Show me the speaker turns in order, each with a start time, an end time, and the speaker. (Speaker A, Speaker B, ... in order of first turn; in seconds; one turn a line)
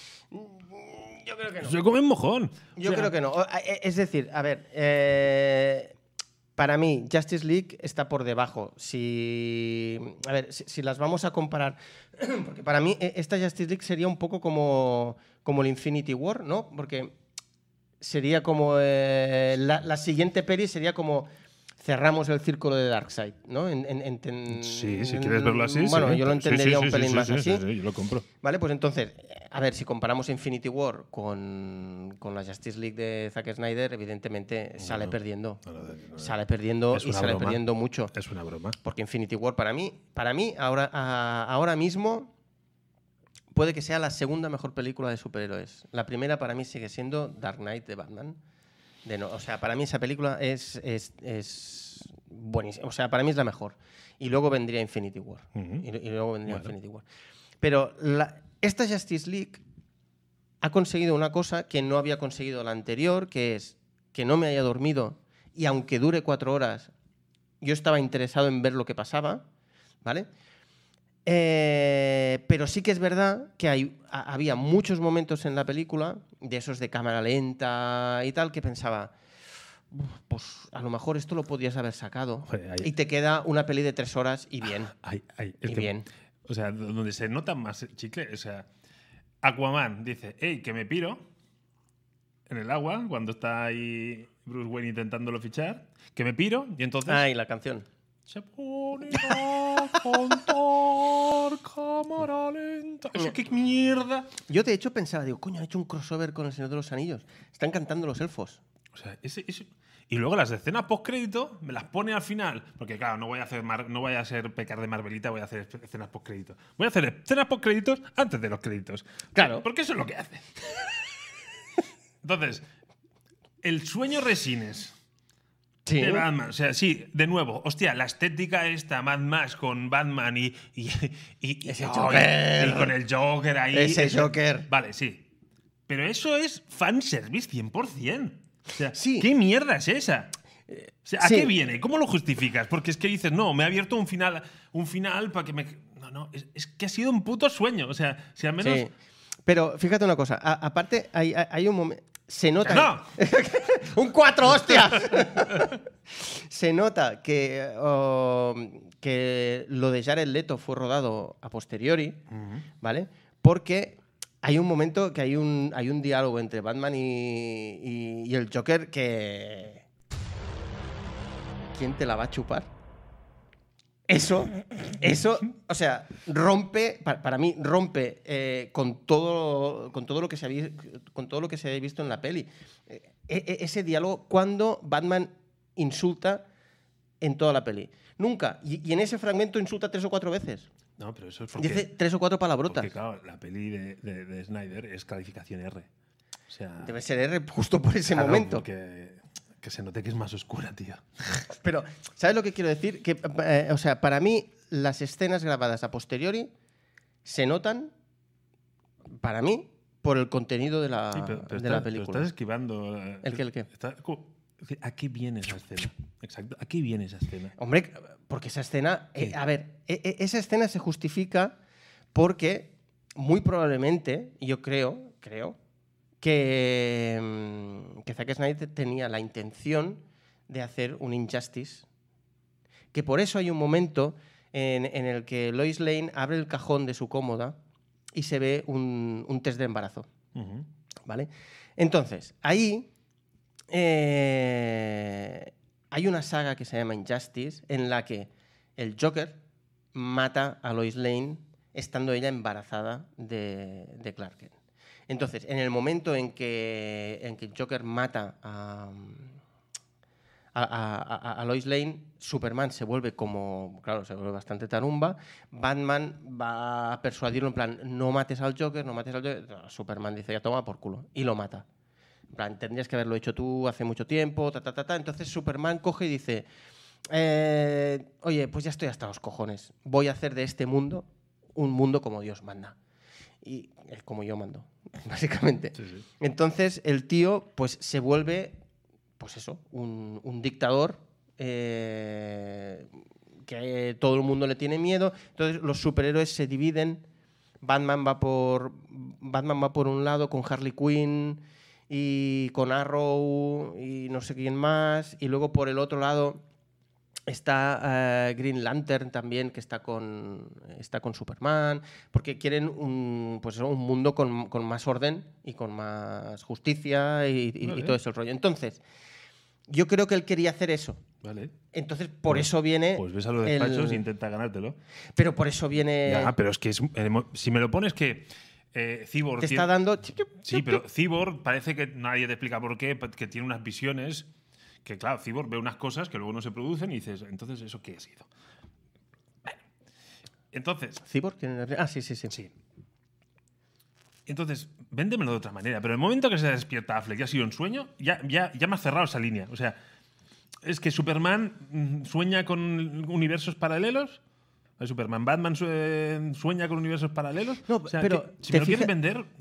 Speaker A: 0.3-1.8
Speaker B: 1.6-3.1
Speaker A: 2.8-5.9
Speaker A: 6.5-17.1
Speaker A: 18.0-21.3
Speaker A: 21.8-27.6
Speaker B: 24.5-28.2
Speaker A: 28.4-35.6
Speaker B: 34.8-36.4
Speaker A: 36.2-38.1
Speaker B: 36.9-37.6
Speaker B: 38.1-38.8
Speaker A: 38.8-42.3
Speaker A: 43.5-48.4
Speaker A: 49.0-57.0
Speaker B: 55.5-55.9
Speaker B: 56.5-56.7
Speaker A: 57.6-59.6
Speaker A: 60.6-66.9
Speaker A: 67.6-69.4
Speaker A: 71.2-79.1
Speaker A: 79.9-84.9
Speaker B: 82.5-82.9
Speaker B: 85.0-85.9
Speaker A: 85.6-86.1
Speaker B: 86.5-88.7
Speaker B: 89.4-91.2
Speaker B: 92.5-97.2
Speaker A: 97.0-97.8
Speaker B: 98.3-104.3
Speaker A: 99.1-99.4
Speaker A: 104.5-108.6
Speaker B: 108.9-121.0
Speaker A: 119.3-119.6
Speaker B: 122.2-122.6
Speaker B: 123.6-124.9
Speaker A: 125.8-126.3
Speaker B: 126.0-135.2
Speaker A: 131.7-132.9
Speaker A: 133.7-134.7
Speaker B: 135.9-140.3
Speaker A: 138.9-139.3
Speaker A: 140.7-141.5
Speaker B: 141.0-148.9
Speaker A: 148.6-148.9
Speaker A: 149.4-162.2
Speaker B: 152.6-153.1
Speaker B: 154.8-155.6
Speaker B: 162.3-162.7
Speaker A: 162.8-169.8
Speaker A: 171.7-172.7
Speaker A: 174.1-186.4
Speaker A: 187.2-190.7
Speaker B: 191.0-191.9
Speaker A: 191.6-192.9
Speaker B: 192.7-195.9
Speaker B: 196.5-196.9
Speaker A: 196.8-198.7
Speaker B: 198.1-201.5
Speaker A: 201.6-206.5
Speaker A: 207.2-207.9
Speaker A: 209.1-212.3
Speaker B: 211.1-217.5
Speaker A: 213.2-213.7
Speaker A: 217.6-221.6
Speaker A: 222.1-225.6
Speaker A: 226.2-231.8
Speaker A: 232.9-237.6
Speaker A: 238.1-240.1
Speaker B: 240.3-240.7
Speaker A: 241.1-242.9
Speaker A: 243.7-249.4
Speaker A: 249.9-254.5
Speaker A: 255.1-259.4
Speaker A: 260.5-271.6
Speaker A: 272.3-276.5
Speaker A: 277.1-282.8
Speaker A: 283.4-288.6
Speaker B: 285.8-286.0
Speaker A: 289.2-297.0
Speaker A: 297.6-306.4
Speaker A: 307.3-318.8
Speaker B: 317.6-318.0
Speaker A: 319.7-321.0
Speaker B: 321.2-321.5
Speaker A: 321.7-324.0
Speaker B: 322.3-324.8
Speaker A: 325.1-326.3
Speaker B: 326.0-329.7
Speaker A: 329.4-330.8
Speaker B: 330.4-334.3
Speaker B: 334.8-338.3
Speaker B: 340.5-341.0
Speaker A: 341.0-342.3
Speaker B: 344.3-349.8
Speaker B: 350.6-354.2
Speaker B: 354.8-359.3
Speaker A: 357.7-358.9